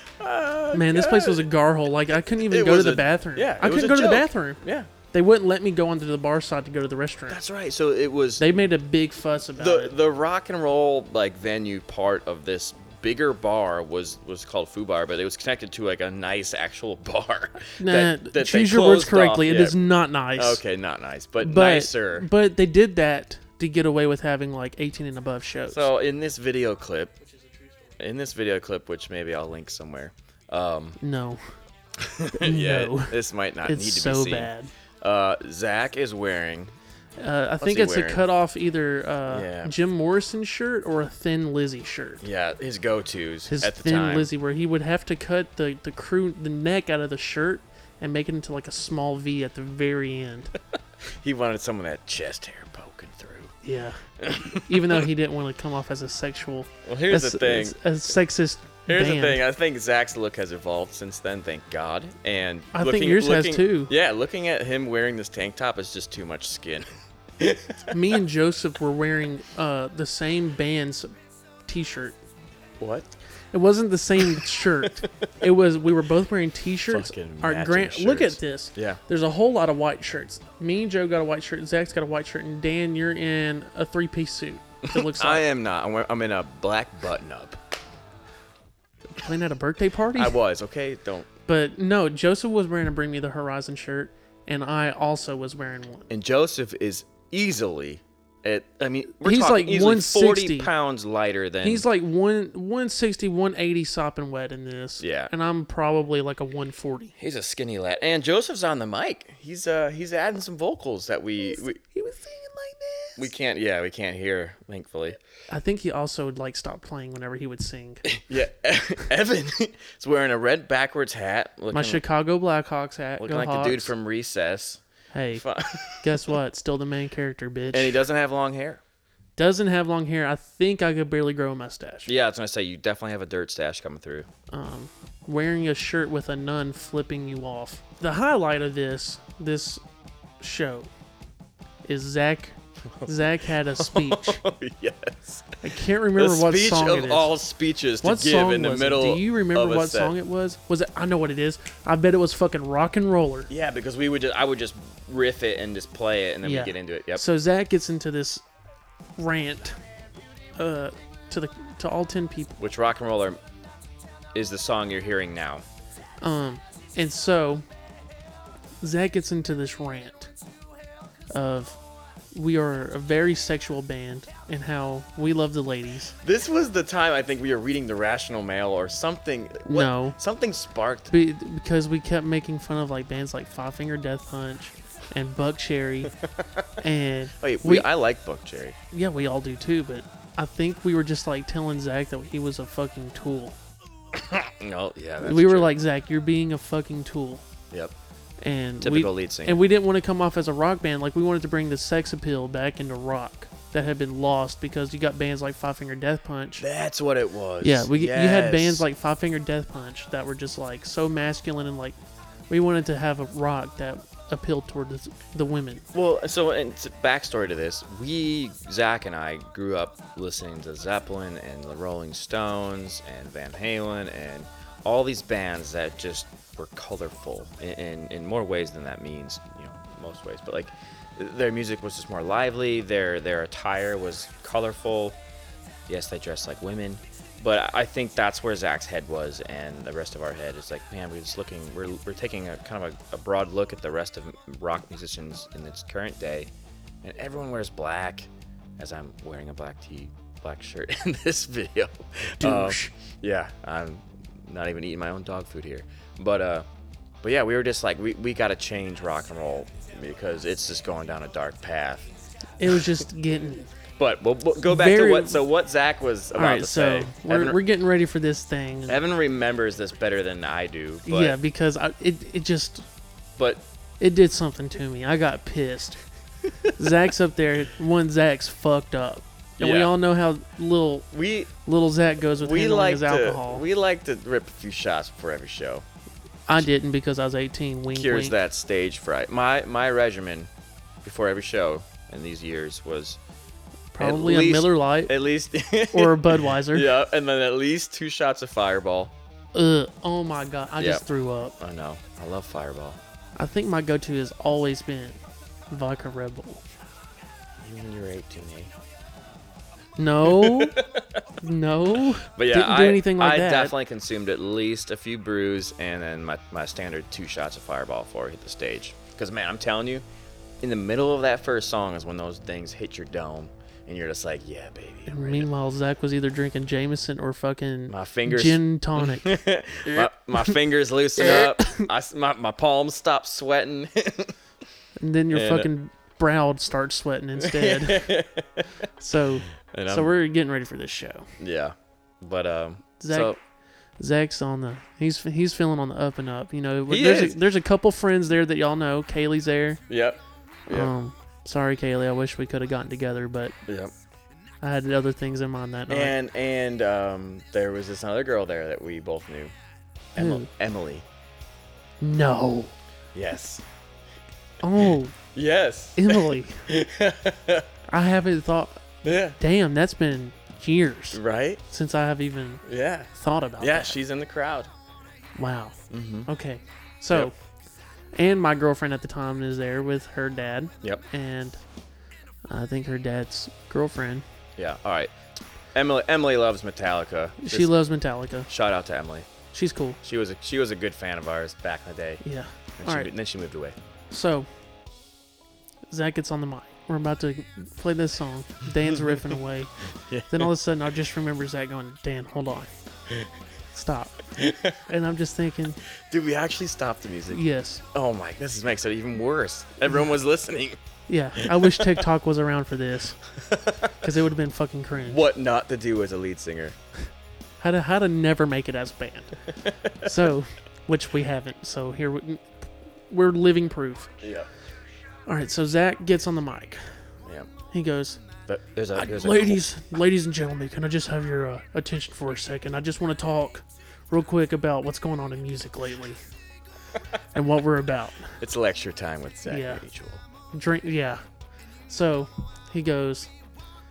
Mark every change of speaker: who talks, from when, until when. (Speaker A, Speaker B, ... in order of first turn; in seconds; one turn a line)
Speaker A: 0.2-1.5
Speaker B: 0.7-4.6
Speaker A: 2.4-4.9
Speaker B: 5.1-7.4
Speaker A: 7.3-8.4
Speaker B: 8.4-9.9
Speaker A: 9.6-19.8
Speaker B: 17.8-20.6
Speaker A: 20.3-22.3
Speaker B: 21.4-25.9
Speaker A: 25.7-27.2
Speaker A: 28.0-31.0
Speaker B: 31.0-31.4
Speaker A: 32.0-34.5
Speaker B: 32.3-33.1
Speaker B: 33.6-34.7
Speaker A: 35.0-36.8
Speaker B: 37.2-42.2
Speaker A: 37.6-38.2
Speaker A: 39.3-39.7
Speaker A: 42.2-44.3
Speaker B: 43.5-50.5
Speaker A: 51.2-53.5
Speaker B: 53.6-59.4
Speaker A: 54.2-55.1
Speaker A: 56.9-57.8
Speaker A: 58.9-66.9
Speaker B: 62.7-63.9
Speaker A: 67.4-67.9
Speaker B: 67.9-71.1
Speaker B: 71.7-72.2
Speaker A: 72.8-73.1
Speaker B: 73.5-85.4
Speaker A: 74.2-75.3
Speaker A: 76.9-79.0
Speaker A: 84.8-87.6
Speaker B: 89.1-90.4
Speaker A: 90.1-91.3
Speaker B: 91.5-96.1
Speaker A: 96.1-101.8
Speaker B: 99.2-100.7
Speaker B: 101.6-107.1
Speaker A: 105.0-105.3
Speaker A: 107.2-111.8
Speaker B: 111.5-113.3
Speaker A: 113.2-115.2
Speaker B: 115.5-118.1
Speaker A: 118.0-122.0
Speaker B: 121.7-123.9
Speaker A: 123.2-124.8
Speaker B: 125.1-125.4
Speaker A: 125.3-126.1
Speaker B: 126.0-128.0
Speaker A: 127.7-128.8
Speaker B: 129.4-132.1
Speaker A: 132.1-134.3
Speaker B: 134.5-139.8
Speaker B: 140.4-140.9
Speaker B: 141.8-144.4
Speaker A: 143.8-145.4
Speaker B: 145.6-147.3
Speaker A: 146.2-150.1
Speaker B: 148.0-153.5
Speaker A: 153.5-157.2
Speaker B: 156.4-158.4
Speaker B: 159.2-159.8
Speaker B: 160.6-162.6
Speaker A: 162.6-163.4
Speaker A: 164.3-165.6
Speaker B: 166.2-167.6
Speaker B: 168.8-170.3
Speaker B: 171.3-171.8
Speaker B: 172.3-176.1
Speaker A: 176.2-181.1
Speaker B: 179.6-180.2
Speaker B: 181.1-186.1
Speaker B: 186.8-187.9
Speaker A: 187.4-188.8
Speaker B: 188.9-193.6
Speaker A: 194.1-195.7
Speaker B: 195.2-197.4
Speaker A: 197.7-197.9
Speaker B: 198.4-206.6
Speaker A: 198.8-199.6
Speaker A: 206.6-208.8
Speaker B: 207.6-212.0
Speaker B: 212.5-215.8
Speaker A: 215.9-235.2
Speaker A: 235.9-246.5
Speaker A: 247.0-256.6
Speaker B: 252.4-252.9
Speaker A: 257.2-262.1
Speaker B: 262.6-263.7
Speaker A: 264.0-267.6
Speaker B: 264.6-265.4
Speaker B: 266.3-269.0
Speaker A: 268.9-271.4
Speaker B: 271.1-272.8
Speaker A: 273.4-273.6
Speaker B: 274.0-276.0
Speaker B: 276.8-281.1
Speaker A: 279.6-279.9
Speaker A: 281.1-281.5
Speaker B: 281.6-283.6
Speaker A: 282.3-285.8
Speaker B: 286.5-288.3
Speaker A: 287.9-290.5
Speaker A: 291.0-293.2
Speaker B: 293.9-295.1
Speaker A: 294.0-299.1
Speaker B: 295.9-296.9
Speaker B: 299.5-301.5
Speaker A: 301.6-303.0
Speaker B: 303.4-305.2
Speaker B: 305.7-306.6
Speaker A: 307.6-308.7
Speaker B: 310.0-310.8
Speaker A: 310.2-311.2
Speaker B: 311.4-313.7
Speaker A: 312.2-320.0
Speaker A: 320.6-325.5
Speaker B: 325.1-330.5
Speaker A: 327.9-334.3
Speaker B: 331.2-331.9
Speaker B: 335.0-338.1
Speaker A: 335.3-335.7
Speaker A: 337.4-338.7
Speaker B: 339.0-341.3
Speaker A: 339.6-340.1
Speaker A: 341.4-343.4
Speaker B: 343.0-343.4
Speaker B: 344.0-349.8
Speaker A: 346.9-347.4
Speaker A: 349.9-350.9
Speaker B: 350.7-353.6
Speaker A: 353.7-353.9
Speaker B: 354.6-356.1
Speaker A: 355.9-359.5
Speaker A: 360.1-361.0
Speaker B: 360.2-360.5
Speaker B: 362.0-362.7
Speaker A: 363.1-363.6
Speaker B: 364.6-365.1
Speaker A: 365.3-367.7
Speaker B: 365.9-366.7
Speaker B: 367.9-374.0
Speaker A: 369.0-369.4
Speaker A: 371.1-371.6
Speaker A: 372.6-374.7
Speaker B: 375.4-377.3
Speaker A: 375.9-376.3
Speaker B: 378.1-381.6
Speaker B: 382.5-384.2
Speaker A: 384.6-385.1
Speaker A: 385.7-387.7
Speaker B: 387.4-388.5
Speaker A: 388.5-389.3
Speaker B: 389.5-390.0
Speaker A: 390.0-392.2
Speaker B: 392.2-393.1
Speaker A: 392.8-393.8
Speaker B: 394.1-394.5
Speaker B: 395.9-399.7
Speaker A: 400.1-400.5
Speaker B: 400.3-402.7
Speaker B: 403.7-404.2
Speaker A: 404.4-404.8
Speaker B: 404.8-405.8
Speaker A: 406.1-410.8
Speaker B: 407.3-407.8
Speaker B: 411.1-413.2
Speaker A: 411.4-412.0
Speaker A: 413.4-413.9
Speaker B: 414.0-415.2
Speaker A: 415.0-416.8
Speaker B: 417.6-419.4
Speaker A: 419.6-420.1
Speaker B: 420.0-422.4
Speaker B: 423.1-424.1
Speaker A: 424.2-424.5
Speaker B: 425.3-426.9
Speaker A: 427.2-427.5
Speaker B: 427.7-428.2
Speaker A: 428.5-429.6
Speaker B: 428.9-436.2
Speaker B: 437.3-438.4
Speaker A: 438.4-440.2
Speaker B: 439.5-439.8
Speaker B: 440.5-441.2
Speaker B: 441.9-443.3